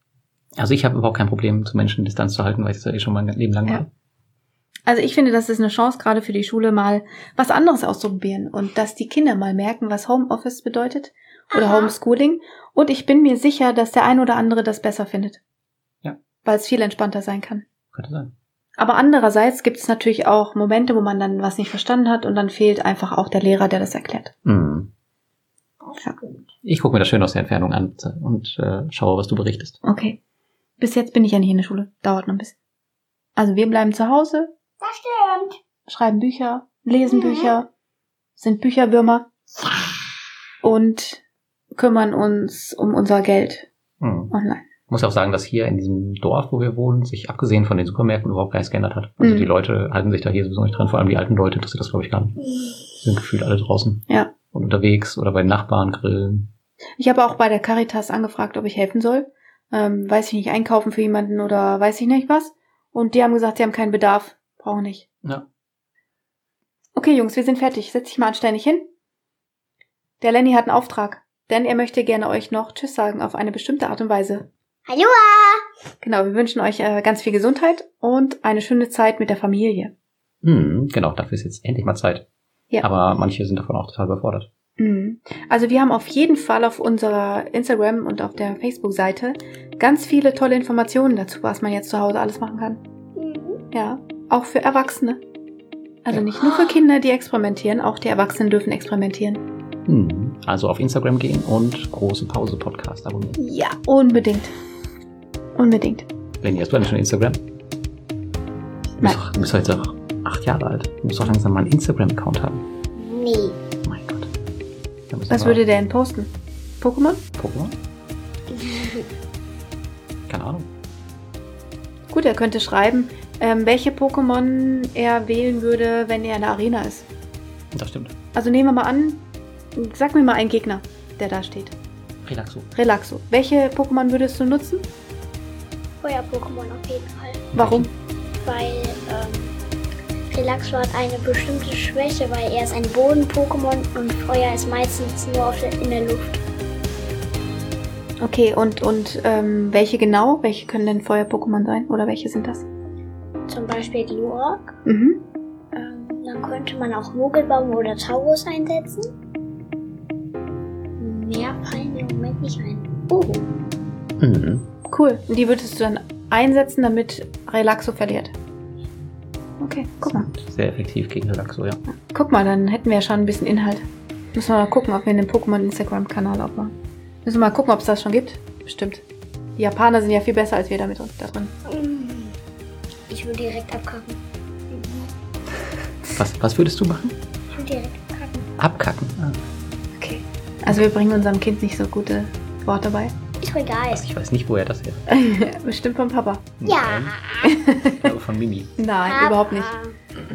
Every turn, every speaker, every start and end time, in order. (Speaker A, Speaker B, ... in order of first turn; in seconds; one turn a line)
Speaker A: 0.6-3.9
Speaker B: 4.9-15.4
Speaker C: 11.5-11.9
Speaker B: 16.4-17.6
Speaker A: 17.9-18.3
Speaker B: 18.8-24.3
Speaker A: 24.4-24.9
Speaker A: 26.6-29.8
Speaker B: 29.8-30.2
Speaker B: 30.8-32.5
Speaker B: 33.4-34.5
Speaker C: 34.8-35.6
Speaker B: 35.9-37.7
Speaker C: 37.1-37.5
Speaker B: 38.4-39.3
Speaker B: 40.6-41.2
Speaker B: 41.8-43.7
Speaker A: 44.0-44.3
Speaker B: 44.3-44.6
Speaker A: 44.9-52.4
Speaker B: 49.2-49.5
Speaker A: 52.9-56.5
Speaker B: 57.0-65.0
Speaker B: 66.9-68.8
Speaker B: 70.2-74.5
Speaker C: 74.9-75.7
Speaker B: 76.0-79.9
Speaker A: 80.4-82.2
Speaker A: 82.8-84.5
Speaker B: 84.8-92.8
Speaker C: 93.2-93.6
Speaker B: 93.7-95.2
Speaker B: 96.0-99.4
Speaker C: 96.3-96.8
Speaker A: 99.9-103.4
Speaker B: 103.4-104.5
Speaker B: 105.5-106.1
Speaker A: 106.4-107.4
Speaker A: 109.0-112.7
Speaker C: 112.9-113.6
Speaker A: 113.8-114.3
Speaker A: 115.1-115.6
Speaker B: 115.3-117.2
Speaker A: 117.3-117.8
Speaker C: 118.5-119.1
Speaker A: 120.3-120.7
Speaker B: 122.1-127.0
Speaker A: 127.7-128.1
Speaker B: 128.3-131.7
Speaker A: 132.2-132.7
Speaker B: 132.7-134.8
Speaker C: 136.0-137.5
Speaker A: 137.5-137.9
Speaker B: 137.6-137.9
Speaker C: 138.4-139.5
Speaker C: 140.3-146.4
Speaker B: 148.2-152.7
Speaker C: 153.5-154.8
Speaker B: 154.8-155.2
Speaker C: 155.7-159.1
Speaker C: 161.0-163.4
Speaker A: 164.2-164.7
Speaker B: 164.9-168.3
Speaker B: 169.6-170.3
Speaker A: 170.0-171.8
Speaker B: 171.9-179.0
Speaker B: 179.6-181.5
Speaker C: 181.7-182.3
Speaker C: 183.1-185.1
Speaker A: 186.1-187.2
Speaker C: 187.5-188.5
Speaker A: 188.6-189.4
Speaker B: 190.0-193.1
Speaker C: 193.4-194.1
Speaker A: 193.9-195.1
Speaker B: 195.1-196.5
Speaker A: 196.6-197.2
Speaker C: 196.6-197.5
Speaker B: 197.4-198.1
Speaker A: 197.8-198.7
Speaker B: 198.8-199.7
Speaker C: 199.1-199.9